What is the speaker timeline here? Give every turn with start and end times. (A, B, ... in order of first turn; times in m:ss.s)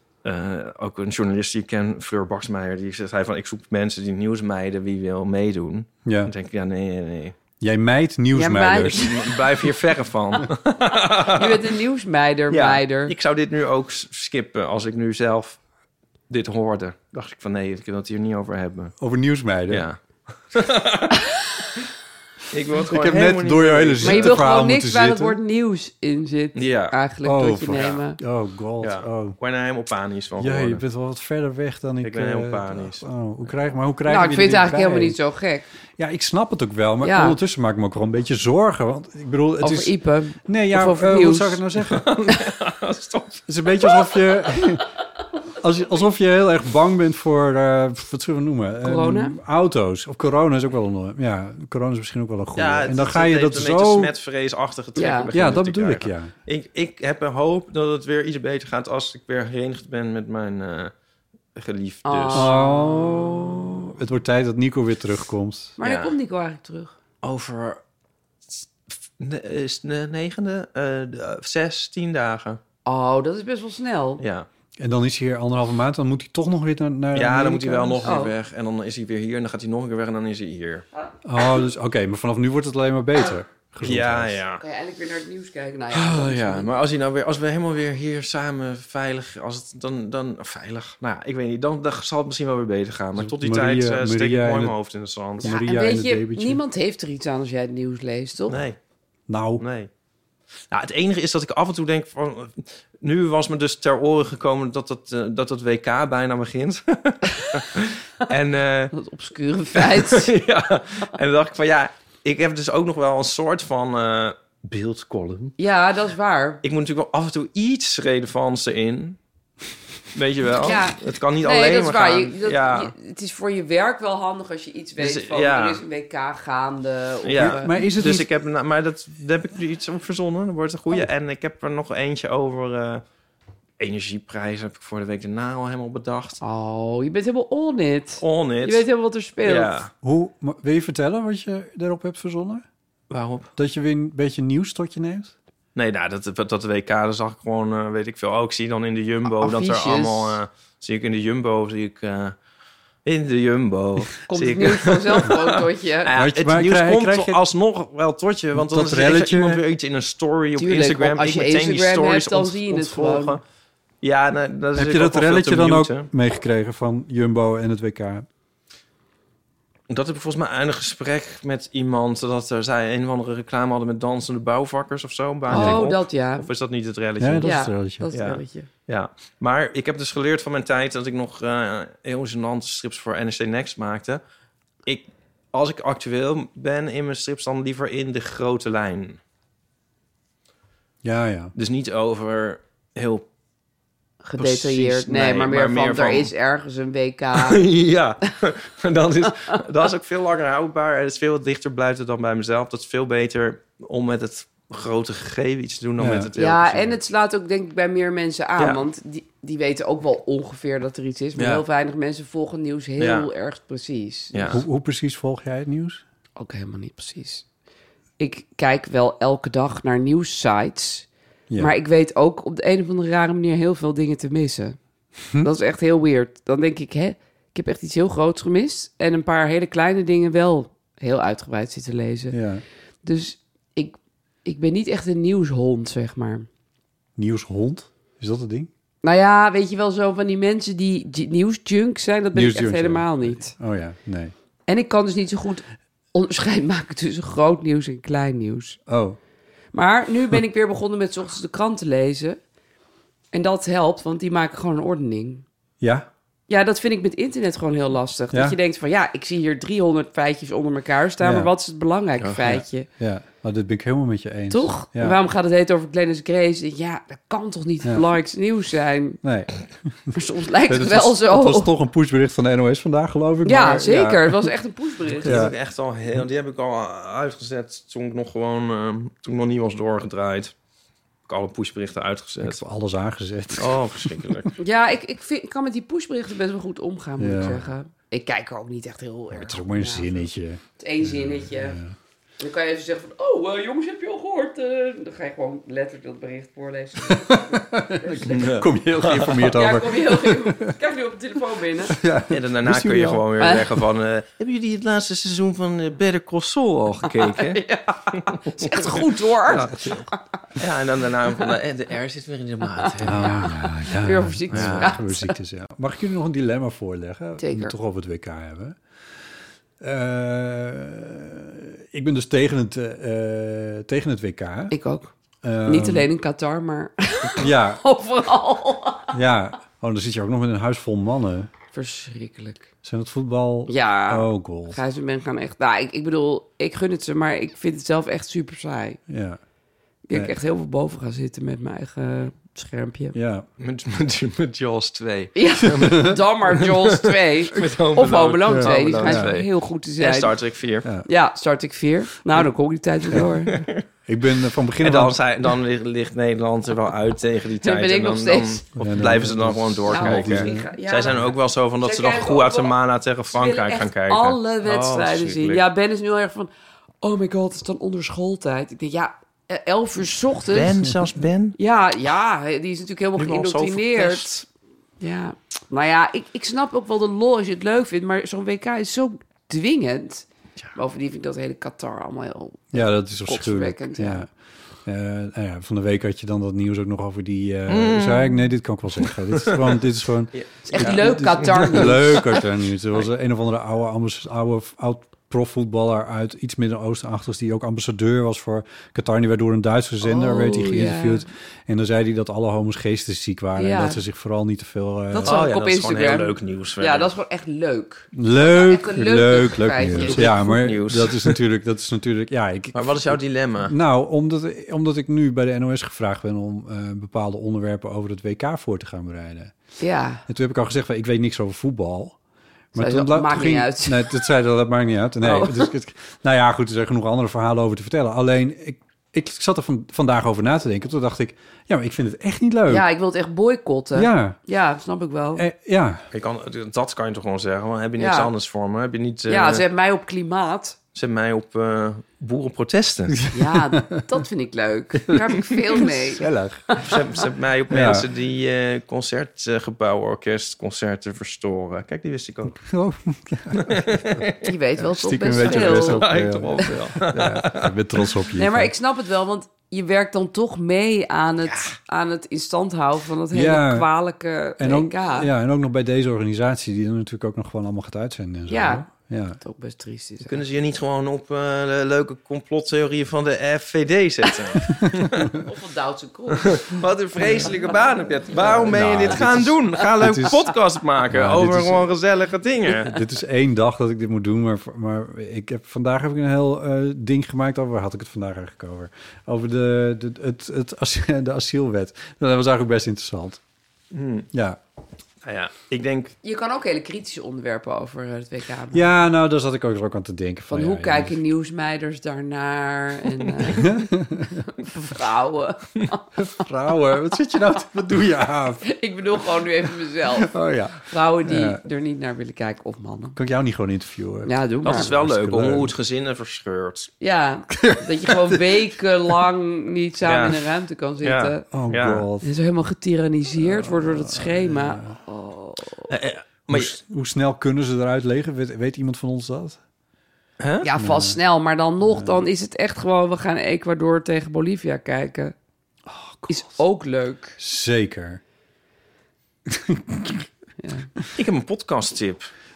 0:00.2-0:07.4 A
0:06.1-0:06.3 B
0:07.6-0:09.2 B
0:08.3-0:09.2 C
0:08.9-0:11.7 A
0:11.3-0:13.1 C
0:12.5-0:15.6 A
0:16.3-0:19.0 A
0:19.0-0:19.9 B
0:19.7-0:20.0 A
0:20.5-0:21.2 A
0:22.5-0:24.5 A
0:22.9-0:25.4 B
0:24.0-0:28.2 C
0:26.6-0:27.0 A
0:27.2-0:29.4 B
0:28.8-0:30.8 A
0:30.4-0:35.2 B
0:32.0-0:33.0 A
0:34.1-0:35.7 C
0:36.0-0:42.1 B
0:37.0-0:37.4 C
0:39.6-0:41.6 C
0:41.8-0:44.2 A
0:43.5-0:44.9 B
0:45.6-0:54.1 B
0:48.8-0:49.4 C
0:52.6-1:00.9 A
0:55.0-0:55.3 C
0:55.3-0:56.3 B
1:01.6-1:02.5 A
1:02.0-1:03.8 C
1:02.3-1:05.8 B
1:05.8-1:06.9 C
1:05.8-1:06.2 A
1:07.2-1:07.8 A
1:09.2-1:12.6 A
1:12.9-1:14.2 C
1:14.2-1:14.5 A
1:14.8-1:18.1 B
1:17.1-1:20.8 A
1:18.0-1:18.3 C
1:21.2-1:24.4 B
1:23.8-1:24.6 A
1:24.6-1:26.7 C
1:25.9-1:35.5 A
1:33.2-1:34.8 B
1:35.4-1:36.6 B
1:35.4-1:38.6 C
1:38.5-1:38.8 A
1:39.3-1:39.6 B
1:39.6-1:39.9 A
1:40.7-1:49.0 A
1:48.9-1:50.3 C
1:49.8-1:55.6 A
1:55.6-1:56.6 C
1:56.6-1:59.2 A
2:00.2-2:02.9 A
2:00.6-2:07.8 C
2:05.0-2:05.8 A
2:07.2-2:13.0 A
2:07.4-2:08.3 B
2:13.8-2:16.4 A
2:16.4-2:19.8 C
2:18.2-2:18.8 A
2:19.4-2:19.9 A
2:20.0-2:22.6 B
2:23.1-2:23.5 A
2:23.6-2:25.3 B
2:25.8-2:32.4 A
2:29.3-2:30.4 C
2:33.0-2:43.4 A
2:34.3-2:36.1 C
2:36.2-2:37.4 B
2:38.6-2:39.6 B
2:40.6-2:43.4 C
2:44.0-2:46.1 A
2:44.8-2:48.3 B
2:49.9-2:57.5 A
2:55.5-2:56.5 C
2:55.5-2:55.8 B
2:57.2-2:58.1 B
2:57.4-2:58.7 C
2:58.1-3:04.2 A
3:04.9-3:09.2 A
3:11.0-3:11.5 B
3:11.6-3:13.3 A
3:14.2-3:17.6 C
3:14.4-3:16.3 A
3:17.3-3:27.0 A
3:26.0-3:26.3 B
3:26.4-3:34.6 C
3:28.6-3:28.8 A
3:31.4-3:31.6 A
3:33.0-3:33.3 A
3:34.3-3:34.6 A
3:34.5-3:36.0 B
3:36.4-3:37.4 C
3:38.2-3:41.1 C
3:41.5-3:41.8 B
3:41.6-3:44.8 C
3:45.4-3:52.4 C
3:52.3-3:52.6 B
3:53.0-3:56.5 C
3:57.2-3:58.7 B
3:59.0-4:03.6 C
4:02.3-4:04.3 B
4:04.7-4:08.8 C
4:08.9-4:09.2 B
4:09.7-4:12.4 C
4:13.3-4:15.4 C
4:15.8-4:16.1 B
4:16.5-4:22.9 C
4:18.3-4:18.6 B
4:21.2-4:21.5 B
4:22.2-4:22.4 A
4:22.4-4:25.2 B
4:24.5-4:29.2 C
4:29.2-4:30.2 B
4:30.1-4:31.7 C
4:30.7-4:34.5 B
4:33.4-4:35.4 C
4:35.2-4:40.5 A
4:35.2-4:35.5 B
4:41.3-4:42.6 A
4:42.4-4:44.4 B
4:43.6-4:44.5 A
4:44.6-4:50.3 C
4:47.2-4:47.6 B
4:49.3-4:52.0 B
4:50.8-4:51.8 C
4:52.4-4:58.4 C
4:57.1-5:00.8 B
4:58.3-4:59.5 A
4:59.5-5:02.0 C
5:01.9-5:03.3 B
5:02.3-5:07.6 A
5:07.1-5:10.2 C
5:08.1-5:10.0 A
5:10.6-5:13.4 A
5:12.8-5:15.4 C
5:13.0-5:18.8 B
5:14.5-5:14.9 A
5:17.4-5:17.7 C
5:19.8-5:24.7 B
5:24.7-5:25.1 C
5:25.4-5:26.1 B
5:25.6-5:29.2 C
5:27.4-5:27.8 B
5:29.1-5:31.5 B
5:31.7-5:32.7 C
5:32.8-5:34.8 B
5:33.7-5:39.0 C
5:39.1-5:39.4 B
5:40.1-5:43.2 C
5:43.1-5:43.5 B
5:43.6-5:50.9 A
5:45.4-5:50.4 C
5:45.8-5:46.2 B
5:48.5-5:49.3 B
5:51.0-5:53.6 C
5:53.1-5:53.8 A
5:54.1-5:55.2 B
5:54.8-6:05.6 A
5:57.6-5:58.6 C
5:58.8-6:00.7 B
5:59.9-6:01.3 C
6:01.8-6:02.8 C
6:03.3-6:06.5 C
6:07.0-6:10.7 C
6:10.5-6:11.6 A
6:11.6-6:14.4 C
6:13.2-6:14.4 A
6:15.0-6:24.3 C
6:22.7-6:24.3 B
6:24.8-6:45.4 B
6:27.7-6:28.4 A
6:29.0-6:29.7 A
6:30.3-6:32.4 A
6:30.7-6:32.3 C
6:40.0-6:41.2 C
6:43.6-6:44.0 C
6:45.1-6:50.5 C
6:45.2-6:47.1 A
6:48.1-6:59.5 B
6:50.0-6:51.4 A
6:52.7-6:53.7 A
6:59.8-7:00.2 C
7:00.3-7:02.2 B
7:02.7-7:12.9 B
7:02.8-7:04.3 C
7:05.2-7:05.7 C
7:12.7-7:15.4 C
7:13.9-7:14.4 B
7:15.4-7:16.0 B
7:16.1-7:19.6 A
7:18.0-7:18.3 C
7:19.3-7:20.8 C
7:21.0-7:23.2 A
7:23.1-7:24.0 B
7:23.3-7:26.9 C
7:25.1-7:26.8 B
7:26.8-7:32.6 A
7:27.7-7:28.1 B
7:32.6-7:34.2 B
7:33.6-7:34.5 A
7:34.4-7:36.1 C
7:34.8-7:38.7 B
7:35.4-7:37.7 A
7:38.4-7:45.3 C
7:43.3-7:43.9 B
7:44.6-7:49.4 B
7:48.5-7:48.9 C
7:49.4-7:50.4 C
7:50.2-7:55.4 A
7:55.4-7:56.6 C
7:56.4-8:02.9 A
7:57.2-7:57.7 C
7:58.4-7:59.2 C
7:58.7-8:00.4 B
8:01.1-8:01.9 B
8:02.8-8:13.4 B
8:13.9-8:14.3 A
8:14.3-8:14.6 B
8:15.2-8:16.2 A
8:16.2-8:18.8 C
8:18.7-8:21.2 B
8:20.5-8:23.9 C
8:23.5-8:24.5 B
8:24.5-8:26.0 C
8:26.2-8:28.6 B
8:28.6-8:30.3 C
8:30.2-8:31.6 B
8:30.8-8:33.2 C
8:33.2-8:35.7 B
8:34.3-8:34.9 C
8:34.6-8:36.9 A
8:37.0-8:41.4 C
8:37.5-8:39.2 B
8:40.0-8:40.4 A
8:41.0-8:42.0 A
8:41.5-8:42.3 B
8:42.2-8:45.9 C
8:43.4-8:45.0 B
8:45.9-8:46.8 A
8:46.5-8:49.6 B
8:50.4-8:50.7 A
8:50.6-8:55.4 C
8:50.8-8:51.2 B
8:51.8-8:52.2 B
8:55.9-8:56.6 B
8:56.3-8:57.4 C
8:57.4-8:58.2 B
8:59.5-9:00.3 B
9:00.6-9:00.9 C
9:01.2-9:02.3 A